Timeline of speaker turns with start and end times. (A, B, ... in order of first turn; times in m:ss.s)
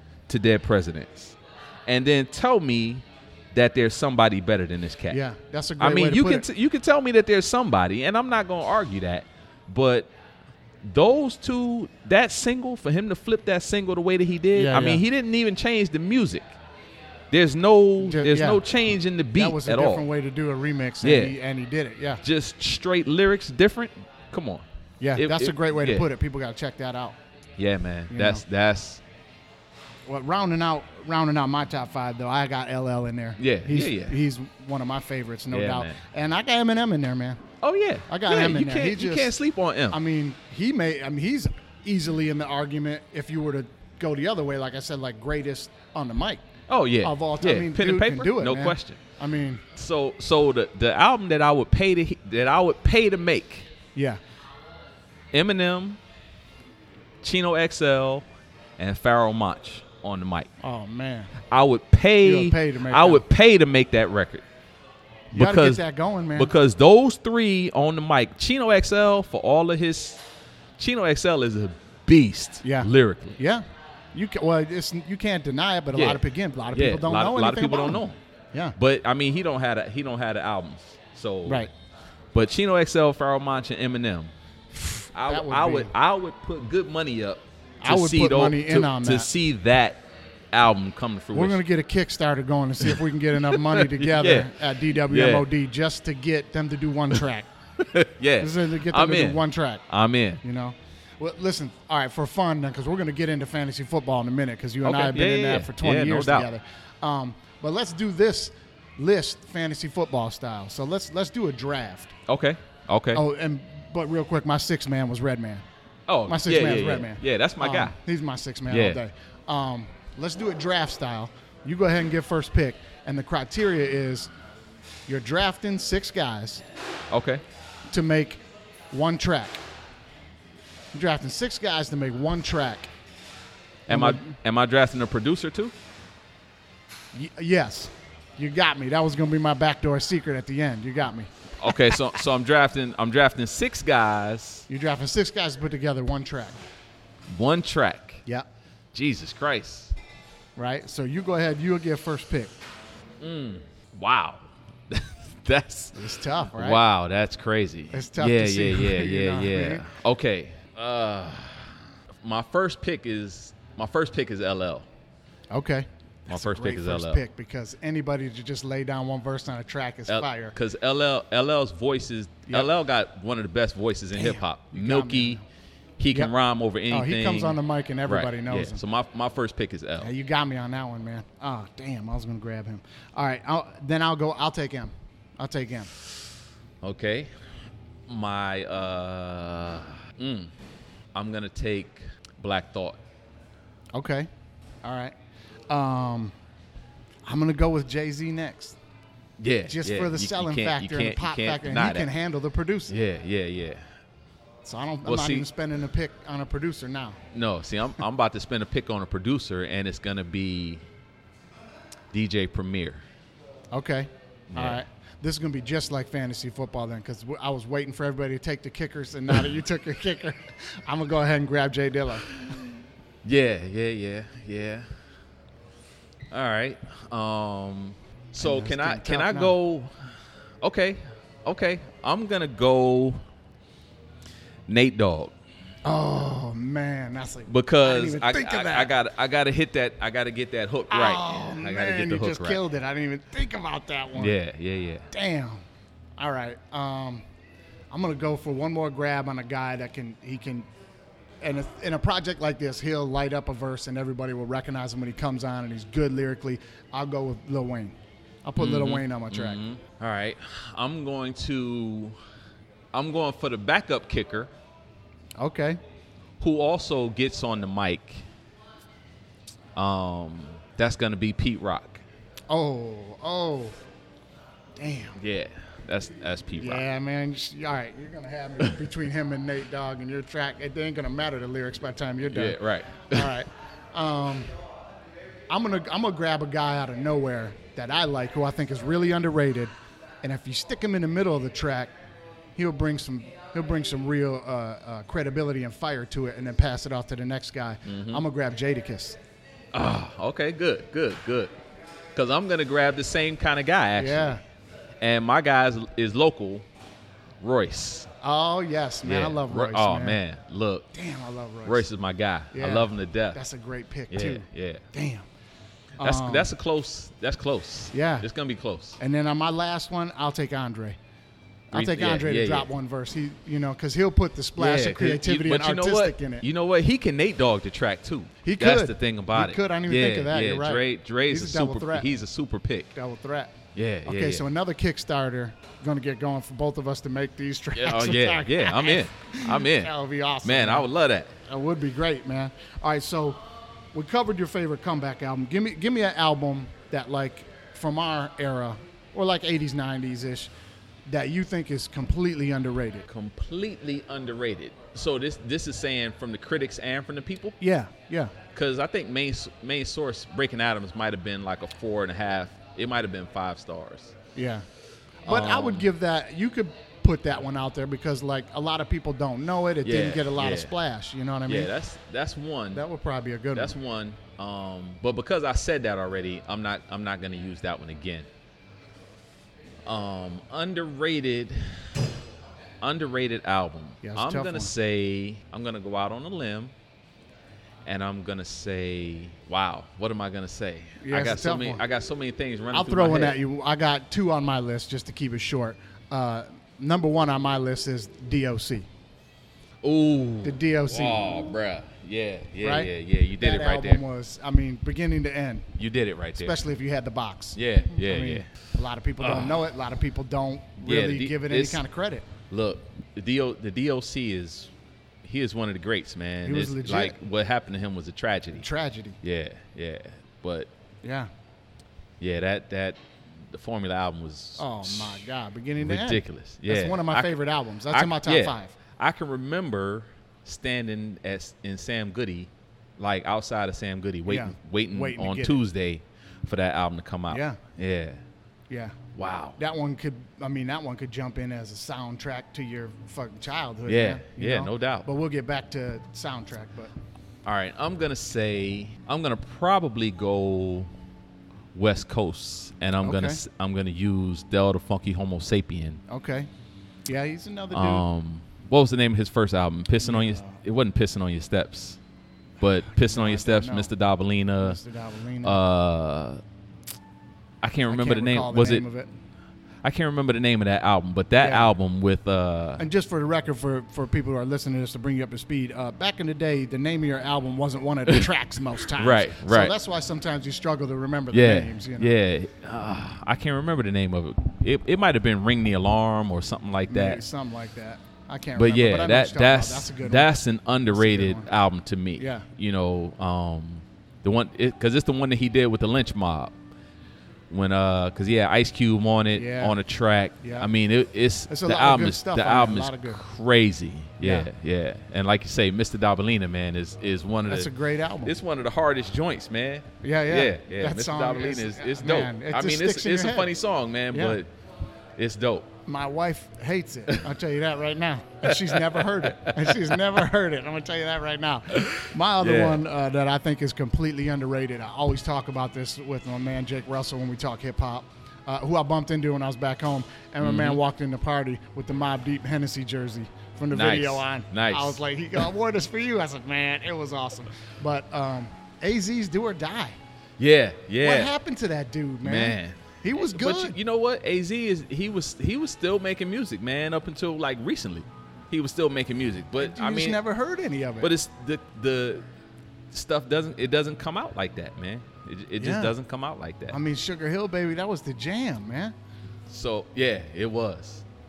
0:00.3-0:05.2 A
0:05.1-0:06.4 B
0:05.8-0:10.1 A
0:10.8-0:16.5 A
0:14.5-0:15.0 B
0:17.3-0:20.0 A
0:18.0-0:18.6 B
0:19.3-0:22.2 B
0:21.0-0:21.3 A
0:22.2-0:26.1 A
0:25.0-0:27.2 B
0:27.6-0:29.0 A
0:28.1-0:28.4 B
0:30.1-0:37.4 B
0:33.4-0:34.2 A
0:35.5-0:36.0 A
0:37.6-0:40.0 A
0:38.1-0:39.3 B
0:39.9-0:46.4 B
0:46.7-0:49.0 A
0:47.0-0:49.6 B
0:49.7-0:53.7 A
0:53.9-0:54.2 B
0:55.3-0:56.0 A
0:57.2-0:58.3 A
0:58.8-1:00.5 A
1:00.6-1:01.3 B
1:01.4-1:04.4 A
1:02.2-1:03.2 B
1:05.3-1:05.8 A
1:05.3-1:06.5 B
1:06.3-1:10.2 A
1:10.8-1:13.4 A
1:12.6-1:18.0 B
1:15.9-1:18.2 A
1:18.8-1:21.7 A
1:21.4-1:21.7 B
1:22.3-1:24.3 A
1:24.8-1:25.9 B
1:25.1-1:31.6 A
1:27.8-1:29.3 B
1:31.3-1:37.5 B
1:32.8-1:35.5 A
1:37.8-1:40.4 A
1:38.4-1:39.8 B
1:40.4-1:52.1 B
1:44.8-1:46.5 A
1:52.3-1:53.2 A
1:53.1-1:55.6 B
1:56.1-1:58.0 A
1:56.3-2:04.3 B
1:58.7-1:59.0 A
2:05.1-2:06.6 B
2:07.1-2:07.4 A
2:07.9-2:09.6 B
2:10.9-2:12.9 B
2:13.9-2:14.4 B
2:13.9-2:15.7 A
2:17.1-2:22.0 B
2:21.6-2:24.6 A
2:24.7-2:26.6 B
2:27.3-2:28.2 A
2:28.9-2:29.9 A
2:30.6-2:32.5 B
2:33.2-2:36.0 A
2:35.9-2:36.8 B
2:36.5-2:44.9 A
2:37.9-2:39.8 B
2:45.5-2:50.5 B
2:46.3-2:47.2 A
2:50.1-2:55.4 A
2:54.1-2:55.4 B
2:56.0-3:00.1 A
2:56.9-2:58.8 B
3:00.0-3:05.9 B
3:06.8-3:07.3 A
3:08.1-3:10.5 A
3:11.1-3:13.0 A
3:13.9-3:14.3 B
3:14.8-3:15.1 B
3:15.7-3:16.3 B
3:17.2-3:18.8 B
3:19.4-3:22.1 A
3:19.7-3:22.9 B
3:22.9-3:23.8 A
3:24.6-3:27.2 B
3:25.0-3:25.5 A
3:27.3-3:30.8 A
3:32.1-3:33.0 A
3:33.7-3:42.4 B
3:34.5-3:34.8 A
3:43.2-3:44.9 A
3:46.3-3:53.2 A
3:48.4-3:49.5 B
3:54.7-3:55.3 A
3:55.8-3:58.9 B
3:57.5-4:02.6 A
4:00.9-4:04.4 B
4:04.2-4:05.0 A
4:05.1-4:05.6 B
4:06.2-4:07.2 B
4:07.9-4:10.7 B
4:11.4-4:19.6 B
4:18.6-4:22.2 A
4:22.9-4:24.5 A
4:25.4-4:25.8 B
4:26.4-4:28.2 A
4:29.8-4:32.0 A
4:32.5-4:33.8 B
4:34.8-4:35.2 B
4:35.2-4:36.8 A
4:36.6-4:42.6 B
4:42.3-4:43.4 A
4:43.1-4:44.5 B
4:45.5-4:49.7 B
4:50.2-4:51.9 B
4:52.6-4:59.2 B
4:57.8-4:58.2 A
4:59.7-5:01.5 A
5:02.1-5:04.4 A
5:04.0-5:04.4 B
5:05.0-5:06.6 A
5:07.4-5:08.1 A
5:08.2-5:10.2 B
5:09.0-5:10.9 A
5:10.9-5:11.8 B
5:11.6-5:13.4 A
5:12.5-5:15.2 B
5:14.1-5:14.8 A
5:16.0-5:16.5 B
5:16.0-5:19.0 A
5:17.9-5:18.3 B
5:19.0-5:21.0 B
5:21.7-5:26.4 B
5:21.7-5:22.7 A
5:24.6-5:32.9 A
5:28.4-5:32.1 B
5:32.9-5:33.5 B
5:33.7-5:34.4 A
5:34.0-5:40.9 B
5:37.7-5:41.3 A
5:41.4-5:43.4 B
5:43.9-5:50.5 B
5:51.1-5:53.0 B
5:53.1-5:57.6 A
5:57.6-5:58.3 B
5:58.5-6:04.1 A
6:04.3-6:04.6 B
6:05.2-6:05.9 A
6:05.2-6:11.7 B
6:09.8-6:10.7 A
6:11.4-6:12.8 A
6:12.7-6:13.7 B
6:13.5-6:18.3 A
6:19.8-6:22.1 A
6:22.8-6:26.7 A
6:24.0-6:24.7 B
6:27.8-6:33.4 A
6:31.0-6:31.8 B
6:32.7-6:38.9 B
6:39.8-6:44.0 A
6:40.4-6:41.3 B
6:42.6-6:45.7 B
6:45.8-6:46.6 A
6:46.4-6:52.3 B
6:47.5-6:48.5 A
6:49.2-6:49.6 A
6:50.8-6:51.8 A
6:52.5-6:54.7 A
6:55.2-6:58.6 A
6:56.4-6:57.2 B
6:58.6-6:59.2 B
6:59.2-7:00.7 A
7:01.0-7:01.3 B
7:02.2-7:05.2 A
7:04.6-7:08.7 B
7:05.8-7:07.4 A
7:07.9-7:18.2 A
7:14.3-7:15.6 B
7:17.3-7:17.6 B
7:18.7-7:19.0 B
7:19.1-7:19.6 A
7:19.6-7:26.9 B
7:23.8-7:25.1 A
7:27.4-7:30.9 A
7:31.7-7:36.0 A
7:33.0-7:33.4 B
7:36.1-7:36.5 B
7:37.1-7:38.0 B
7:37.7-7:42.0 A
7:40.0-7:40.6 B
7:42.6-7:44.8 A
7:42.8-7:43.9 B
7:44.6-7:45.6 B
7:45.4-7:46.4 A
7:47.6-7:48.8 A
7:47.9-7:49.1 B
7:49.8-7:52.8 A
7:51.4-7:51.7 B
7:52.8-8:02.1 B
7:58.9-7:59.7 A
8:01.3-8:07.2 A
8:06.9-8:10.4 B
8:08.6-8:16.5 A
8:10.9-8:11.5 B
8:12.2-8:12.5 B
8:17.5-8:27.7 A
8:19.3-8:19.8 B
8:20.4-8:20.7 B
8:21.5-8:23.2 B
8:24.2-8:24.5 B
8:27.5-8:28.3 B
8:28.2-8:34.5 A
8:30.0-8:33.5 B
8:34.1-8:34.4 B
8:35.2-8:35.7 A
8:35.8-9:00.0 B
8:38.4-8:40.0 A
8:41.7-8:42.8 A
8:50.4-8:50.8 A
8:53.7-8:55.0 A
9:00.4-9:01.3 A
9:01.0-9:03.8 B
9:02.2-9:10.2 A
9:09.6-9:11.1 B
9:11.0-9:12.2 A
9:12.9-9:16.8 A
9:15.6-9:15.9 B
9:16.7-9:18.9 B
9:19.5-9:21.0 A